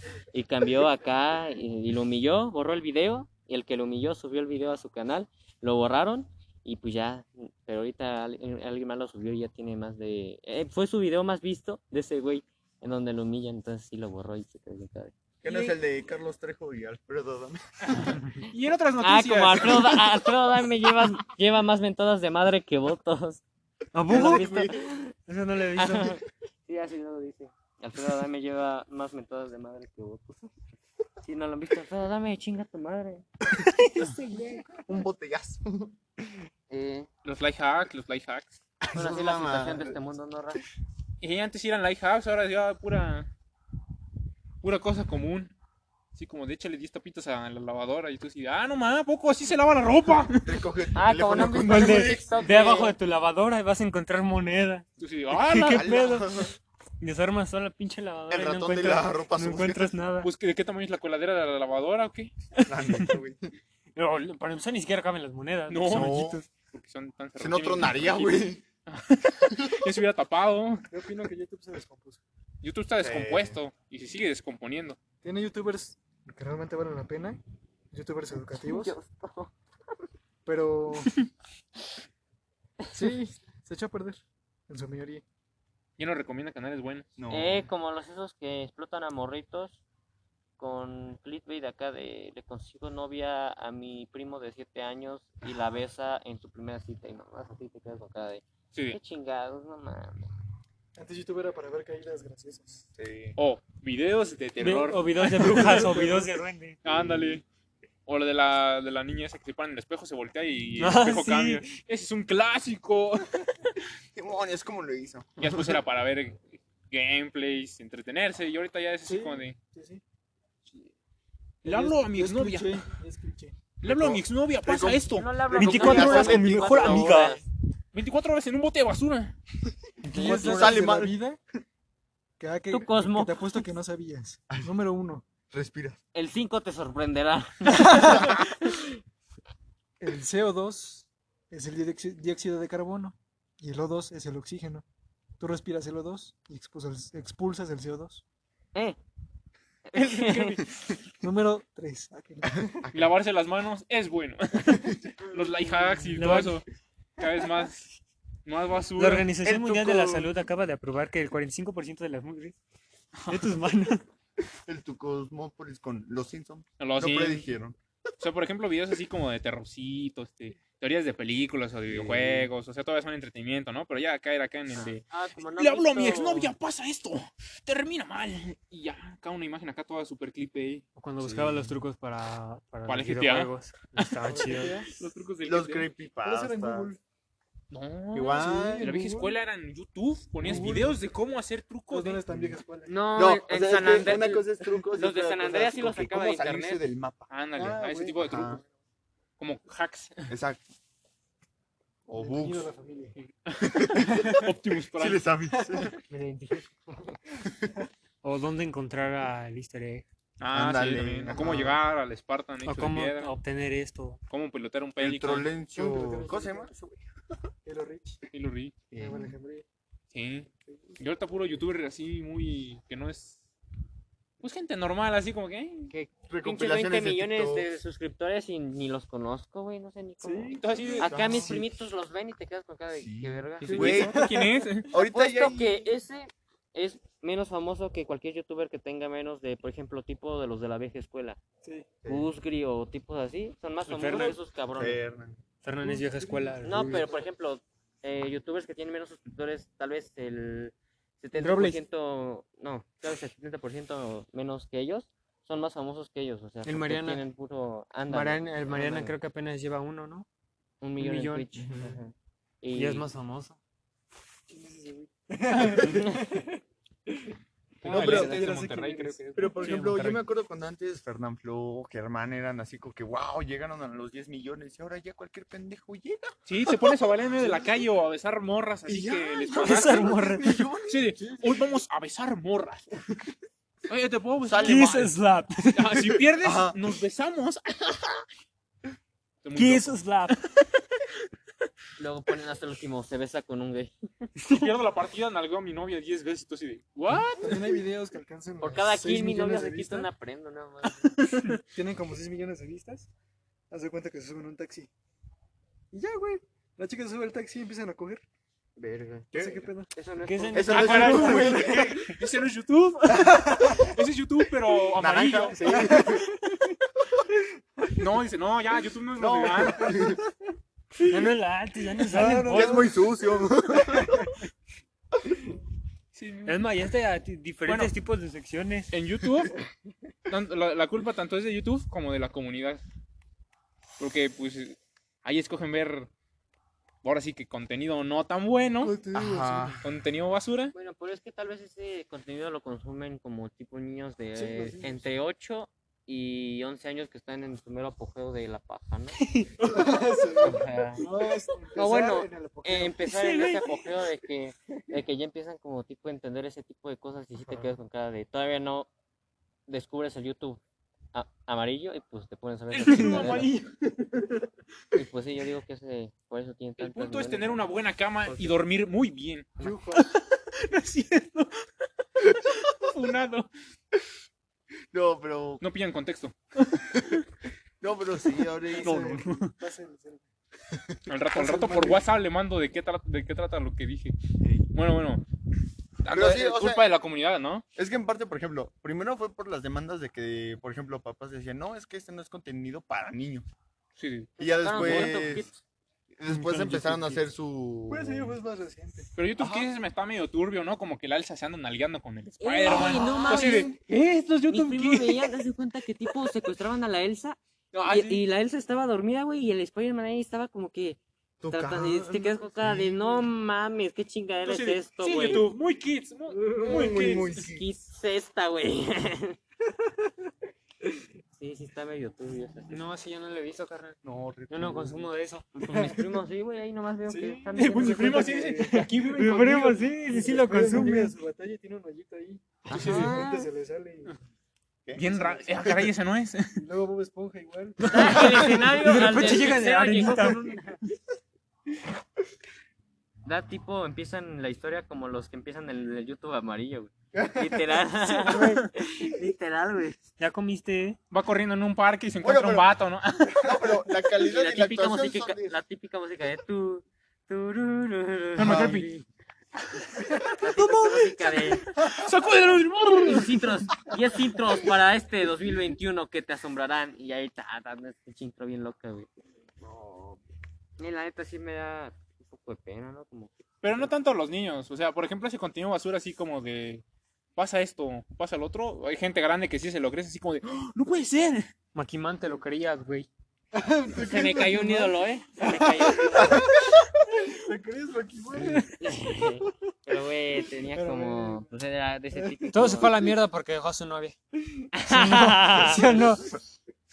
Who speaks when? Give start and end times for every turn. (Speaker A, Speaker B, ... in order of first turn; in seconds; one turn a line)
Speaker A: 0.3-15.8
Speaker B: 15.4-18.2
Speaker C: 18.4-20.1
Speaker A: 19.0-23.4
Speaker D: 23.9-24.5
Speaker B: 24.1-24.8
Speaker A: 24.1-25.1
Speaker D: 25.3-26.2
Speaker A: 25.8-30.5
Speaker A: 31.2-33.2
Speaker D: 33.6-34.7
Speaker B: 34.7-36.0
Speaker A: 36.7-37.1
Speaker C: 37.2-38.6
Speaker B: 38.8-40.0
Speaker A: 38.9-40.6
Speaker C: 41.2-43.3
Speaker C: 44.6-45.5
Speaker C: 46.1-50.6
Speaker B: 50.4-52.4
Speaker A: 51.0-53.0
Speaker D: 51.5-60.3
Speaker C: 55.0-56.0
Speaker B: 55.6-56.5
Speaker B: 58.3-60.0
Speaker C: 60.2-62.4
Speaker B: 62.7-63.5
Speaker D: 64.0-66.5
Speaker C: 65.7-70.9
Speaker B: 65.9-66.4
Speaker B: 67.4-68.6
Speaker E: 70.9-72.2
Speaker C: 72.6-75.0
Speaker B: 73.0-73.6
Speaker E: 75.2-78.9
Speaker A: 78.6-79.5
Speaker E: 80.5-81.2
Speaker E: 82.9-85.2
Speaker C: 86.0-87.1
Speaker B: 87.2-87.7
Speaker A: 87.3-89.8
Speaker A: 90.6-100.3
Speaker C: 98.7-99.0
Speaker E: 101.0-102.9
Speaker B: 103.0-103.4
Speaker C: 103.4-106.1
Speaker D: 104.6-106.8
Speaker E: 105.6-106.2
Speaker C: 106.8-107.4
Speaker B: 107.0-107.4
Speaker C: 108.1-113.7
Speaker D: 110.8-111.7
Speaker B: 114.1-115.8
Speaker C: 115.4-119.6
Speaker E: 119.1-120.0
Speaker C: 121.6-122.9
Speaker E: 121.6-123.6
Speaker C: 123.8-125.3
Speaker B: 123.8-127.3
Speaker A: 125.2-127.4
Speaker D: 125.5-127.4
Speaker C: 127.9-129.4
Speaker B: 130.0-131.2
Speaker E: 130.1-131.4
Speaker E: 132.4-135.3
Speaker A: 132.7-133.6
Speaker B: 135.5-136.0
Speaker A: 136.1-138.9
Speaker E: 138.1-138.3
Speaker E: 140.0-144.8
Speaker E: 145.4-148.2
Speaker A: 149.9-150.6
Speaker C: 149.9-151.0
Speaker E: 151.2-152.8
Speaker B: 152.6-153.1
Speaker C: 152.9-156.7
Speaker D: 156.2-156.6
Speaker C: 157.2-157.9
Speaker C: 158.4-159.3
Speaker D: 159.0-162.6
Speaker B: 159.4-160.4
Speaker D: 163.3-164.1
Speaker B: 164.7-167.8
Speaker C: 166.8-167.5
Speaker C: 168.2-180.8
Speaker B: 171.9-172.5
Speaker A: 174.7-176.5
Speaker D: 181.0-184.9
Speaker B: 181.2-181.8
Speaker C: 182.9-184.2
Speaker E: 184.2-184.9
Speaker C: 184.9-185.9
Speaker B: 185.4-186.9
Speaker E: 186.2-187.0
Speaker C: 187.7-192.2
Speaker B: 188.1-188.9
Speaker E: 188.3-189.4
Speaker E: 190.4-191.0
Speaker E: 191.9-193.0
Speaker B: 192.3-192.6
Speaker A: 192.9-196.8
Speaker B: 193.1-197.3
Speaker C: 197.3-198.6
Speaker E: 197.6-198.6
Speaker B: 198.2-198.6
Speaker C: 199.4-200.3
Speaker B: 200.3-200.6
Speaker B: 202.1-202.7
Speaker E: 202.2-203.2
Speaker C: 203.2-205.2
Speaker B: 203.7-205.9
Speaker E: 205.6-205.9
Speaker A: 206.1-207.2
Speaker D: 208.2-210.1
Speaker C: 210.4-213.3
Speaker B: 210.5-211.8
Speaker D: 212.6-214.2
Speaker C: 214.3-215.5
Speaker B: 215.0-217.0
Speaker E: 215.8-216.7
Speaker E: 217.7-218.2
Speaker C: 218.3-218.8
Speaker B: 218.9-219.4
Speaker E: 219.0-219.7
Speaker C: 220.1-223.4
Speaker E: 220.7-221.0
Speaker C: 224.4-225.9
Speaker A: 225.9-234.0
Speaker B: 226.3-227.7
Speaker E: 230.2-231.0
Speaker C: 230.6-231.5
Speaker B: 231.0-231.7
Speaker B: 232.9-234.3
Speaker C: 233.6-234.9
Speaker E: 233.7-234.8
Speaker B: 234.8-235.8
Speaker A: 234.9-241.4
Speaker A: 242.1-245.0
Speaker D: 243.9-244.4
Speaker B: 244.7-245.4
Speaker D: 245.6-247.1
Speaker E: 245.8-247.1
Speaker A: 246.6-259.1
Speaker D: 251.4-251.8
Speaker D: 256.6-257.2
Speaker D: 258.1-260.3
Speaker A: 260.8-262.1
Speaker D: 261.0-261.6
Speaker B: 261.6-262.0
Speaker A: 262.6-263.1
Speaker D: 262.7-263.6
Speaker E: 264.5-267.1
Speaker A: 265.8-266.2
Speaker C: 267.8-270.2
Speaker E: 267.8-270.0
Speaker B: 267.8-268.5
Speaker B: 269.4-277.0
Speaker C: 276.5-280.3
Speaker B: 278.9-281.2
Speaker D: 279.6-280.6
Speaker C: 280.9-282.9
Speaker C: 283.9-285.1
Speaker B: 284.4-285.1
Speaker D: 284.6-285.9
Speaker C: 285.7-288.2
Speaker B: 286.0-286.8
Speaker C: 289.4-290.4
Speaker D: 289.6-290.4
Speaker A: 292.0-293.9
Speaker C: 294.4-297.8
Speaker E: 297.4-300.1
Speaker A: 298.6-301.1
Speaker E: 301.7-303.1
Speaker E: 303.7-304.9
Speaker E: 305.9-308.2
Speaker A: 308.8-309.3
Speaker B: 309.3-309.7
Speaker E: 309.3-309.9
Speaker A: 309.9-311.2
Speaker D: 310.2-312.1
Speaker B: 310.5-312.1
Speaker C: 310.7-316.1
Speaker E: 313.4-313.7
Speaker B: 315.0-316.3
Speaker E: 315.5-316.3
Speaker C: 317.9-320.1
Speaker B: 319.2-320.2
Speaker D: 321.1-322.9
Speaker E: 322.1-323.0
Speaker B: 322.4-324.3
Speaker E: 323.8-324.3
Speaker C: 326.1-326.6
Speaker D: 326.4-328.9
Speaker C: 327.7-327.9
Speaker C: 328.9-329.5
Speaker C: 330.3-332.8
Speaker C: 334.0-336.1
Speaker C: 337.0-339.1
Speaker E: 338.8-339.8
Speaker B: 339.1-339.8
Speaker C: 339.8-340.7
Speaker A: 340.7-349.2
Speaker E: 344.4-345.1
Speaker D: 349.2-349.6
Speaker E: 349.6-353.0
Speaker A: 350.4-351.1
Speaker A: 351.8-358.9
Speaker D: 353.0-353.9
Speaker A: 359.7-360.6
Speaker A: 361.1-363.5
Speaker C: 362.7-364.3
Speaker D: 362.9-363.5
Speaker A: 364.9-367.7
Speaker C: 366.8-371.7
Speaker E: 369.6-370.1
Speaker C: 372.2-373.5
Speaker B: 374.9-375.6
Speaker C: 375.6-377.0
Speaker B: 376.9-377.2
Speaker B: 377.8-379.2
Speaker E: 378.7-380.3
Speaker C: 378.8-379.4
Speaker D: 378.9-379.4
Speaker C: 381.1-384.2
Speaker E: 381.3-382.1
Speaker B: 384.4-384.7
Speaker C: 384.7-385.2
Speaker C: 386.0-387.6
Speaker B: 386.1-386.9
Speaker B: 387.8-393.5
Speaker C: 394.0-395.2
Speaker B: 394.4-395.5
Speaker A: 394.4-395.6
Speaker B: 396.2-398.4
Speaker D: 396.3-397.2
Speaker E: 397.9-399.1
Speaker C: 399.2-405.4
Speaker B: 399.4-399.7
Speaker A: 402.4-403.8
Speaker B: 402.7-403.7
Speaker A: 404.5-415.5
Speaker C: 407.7-408.2
Speaker B: 411.4-413.2
Speaker C: 414.4-417.3
Speaker E: 416.3-416.9
Speaker B: 416.6-417.7
Speaker A: 416.8-419.4
Speaker A: 421.4-422.8
Speaker D: 422.7-425.9
Speaker E: 424.6-425.0
Speaker A: 425.6-428.4
Speaker E: 425.7-426.1
Speaker E: 427.1-434.2
Speaker D: 427.6-431.2
Speaker C: 427.7-428.9
Speaker A: 432.7-433.5
Speaker C: 432.7-433.1
Speaker C: 434.9-436.6
Speaker E: 435.0-435.8
Speaker E: 436.6-439.4
Speaker D: 437.9-440.5
Speaker A: 437.9-440.8
Speaker A: 443.2-450.0
Speaker E: 447.1-447.8
Speaker D: 448.2-448.7
Speaker D: 450.2-451.0
Speaker C: 451.1-453.5
Speaker B: 452.2-452.7
Speaker B: 453.4-455.6
Speaker A: 454.2-459.1
Speaker C: 458.4-458.9
Speaker B: 458.4-458.8
Speaker A: 460.4-461.7
Speaker C: 461.8-463.4
Speaker A: 463.0-469.1
Speaker A: 469.6-470.2
Speaker A: 470.8-473.9
Speaker C: 473.6-476.8
Speaker C: 477.4-481.5
Speaker D: 481.7-483.1
Speaker E: 483.5-489.5
Speaker A: 483.9-486.5
Speaker D: 488.4-488.6
Speaker A: 488.8-493.1
Speaker E: 490.6-491.5
Speaker E: 492.1-493.1
Speaker D: 492.5-494.2
Speaker A: 494.7-495.9
Speaker D: 494.9-496.4
Speaker E: 495.6-496.1